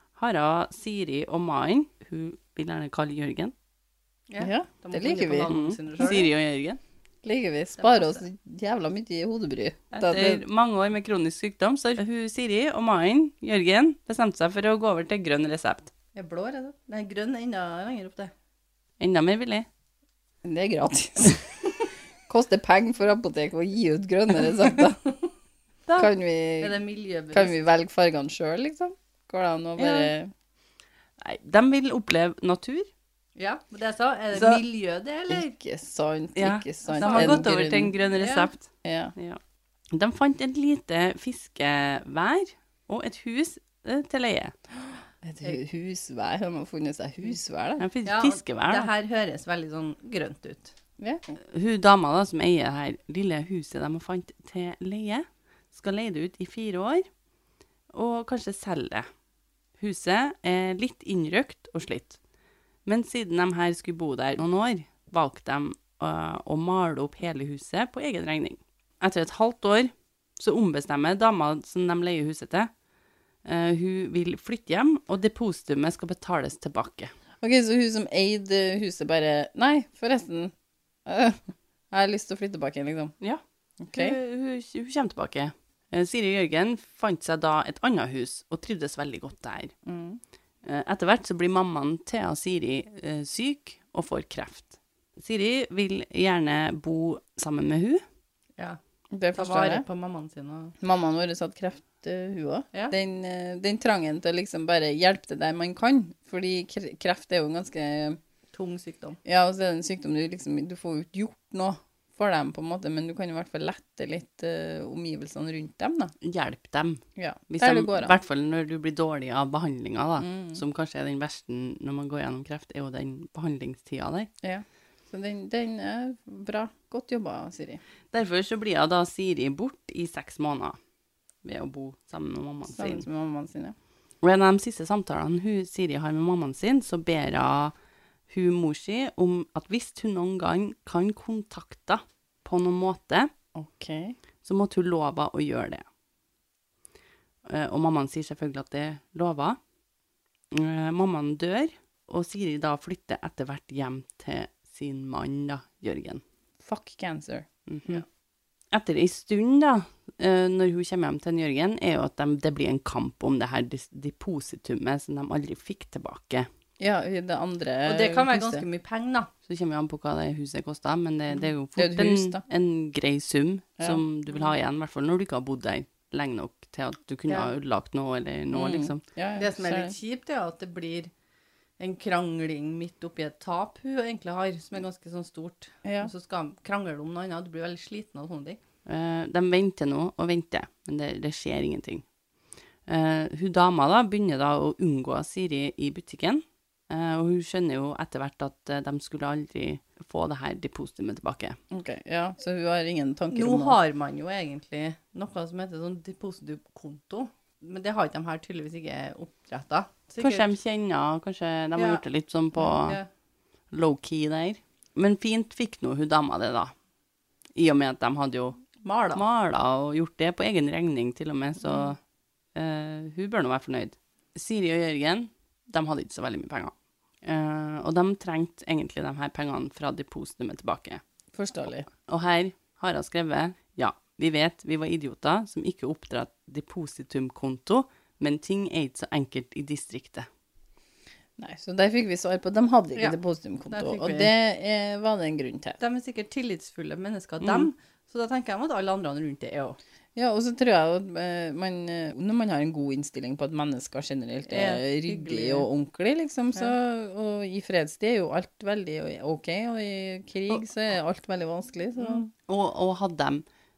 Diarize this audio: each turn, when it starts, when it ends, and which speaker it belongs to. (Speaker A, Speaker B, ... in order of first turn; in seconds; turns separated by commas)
Speaker A: 0.1-3.5, Speaker B: 4.3-6.3, Speaker C: 4.4-6.2, Speaker A: 5.5-6.8, Speaker C: 7.2-10.4, Speaker B: 7.8-8.2, Speaker A: 9.9-15.9, Speaker B: 16.1-18.3, Speaker A: 19.0-19.7, Speaker C: 20.4-25.0, Speaker C: 25.9-26.8, Speaker B: 26.6-27.5, Speaker C: 27.3-30.3, Speaker A: 29.8-30.1, Speaker A: 31.2-32.9, Speaker B: 33.4-35.5, Speaker A: 34.3-34.6, Speaker C: 35.3-37.9, Speaker A: 36.4-39.4, Speaker B: 36.9-37.6, Speaker B: 38.1-38.5, Speaker C: 38.8-39.1, Speaker A: 39.9-44.5, Speaker C: 45.2-47.8, Speaker A: 47.8-48.9, Speaker B: 48.0-50.7, Speaker A: 51.4-57.0, Speaker A: 57.9-59.0, Speaker A: 59.8-62.2, Speaker A: 62.9-72.7, Speaker A: 73.4-77.1, Speaker C: 77.4-80.5, Speaker C: 81.0-83.1, Speaker C: 83.8-84.2, Speaker A: 83.9-89.7, Speaker C: 89.8-90.2, Speaker A: 90.6-98.0, Speaker C: 99.1-99.8, Speaker B: 99.3-100.8, Speaker C: 100.8-108.2, Speaker B: 108.5-109.2, Speaker C: 109.2-116.1, Speaker A: 116.2-124.3, Speaker C: 117.2-118.2, Speaker C: 120.2-120.6, Speaker C: 124.4-127.8, Speaker A: 128.1-130.8, Speaker A: 131.4-133.1, Speaker C: 132.7-133.7, Speaker A: 134.2-137.7, Speaker A: 138.3-143.3, Speaker C: 143.5-144.2, Speaker A: 144.4-145.8, Speaker A: 147.5-149.6, Speaker A: 150.5-156.2, Speaker C: 156.6-158.0, Speaker A: 157.7-158.0, Speaker A: 158.7-166.5, Speaker C: 166.8-168.6, Speaker B: 167.8-169.3, Speaker A: 169.5-179.0, Speaker C: 171.7-172.4, Speaker C: 178.5-179.9, Speaker B: 179.3-181.1, Speaker B: 181.8-188.6, Speaker C: 185.8-186.1, Speaker A: 188.8-192.0, Speaker A: 192.9-201.6, Speaker C: 201.7-203.8, Speaker B: 203.3-210.5, Speaker A: 210.2-213.0, Speaker B: 211.8-212.0, Speaker B: 212.6-213.1, Speaker A: 213.7-216.7, Speaker A: 217.6-218.6, Speaker B: 218.8-219.2, Speaker A: 219.1-222.0, Speaker A: 222.5-226.7, Speaker A: 227.2-231.0, Speaker C: 231.3-231.9, Speaker A: 232.1-240.2, Speaker C: 241.4-245.8, Speaker B: 243.7-244.3, Speaker B: 245.8-249.8, Speaker A: 247.4-247.7, Speaker C: 250.2-262.3, Speaker B: 254.5-255.7, Speaker A: 262.0-263.4